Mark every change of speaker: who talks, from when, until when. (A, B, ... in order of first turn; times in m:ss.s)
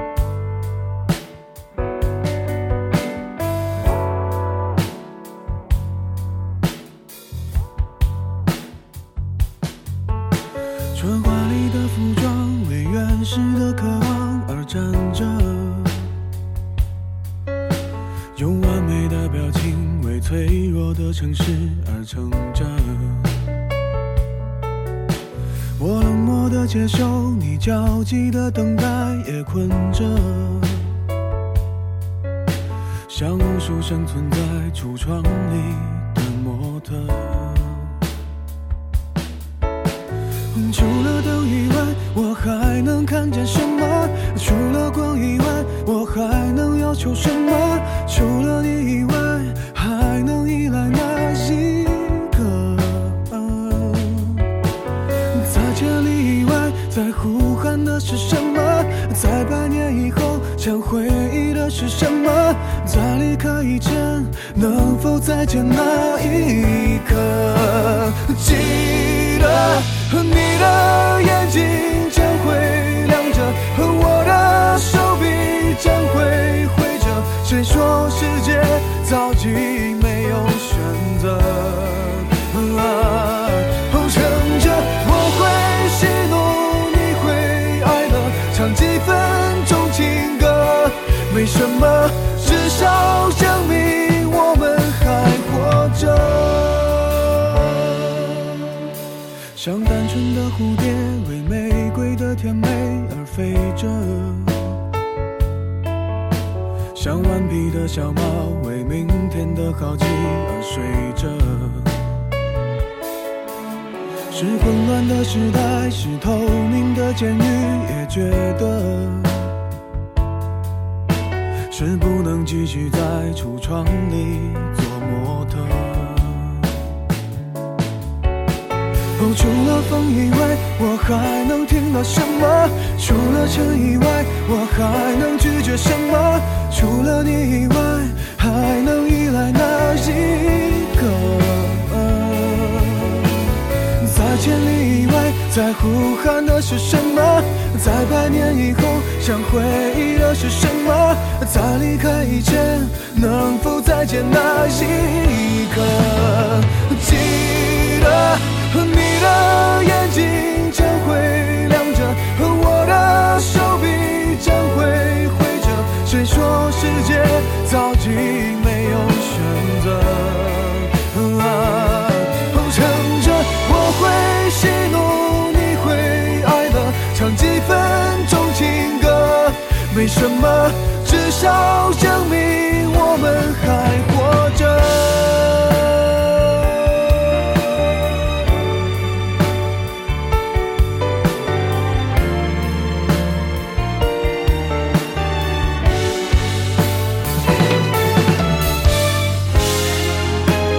0:10.9-0:16.1 A
0:18.4-0:23.3 A
0:25.8-0:30.9 A
0:33.1-0:37.9 A
0:40.5-0:54.4 A
0:55.3-1:38.4 A
1:39.6-1:44.8 A
1:46.9-1:52.0 A
1:54.3-1:59.5 A
2:01.7-2:06.8 A
2:09.2-2:23.3 A
2:24.0-3:06.6 A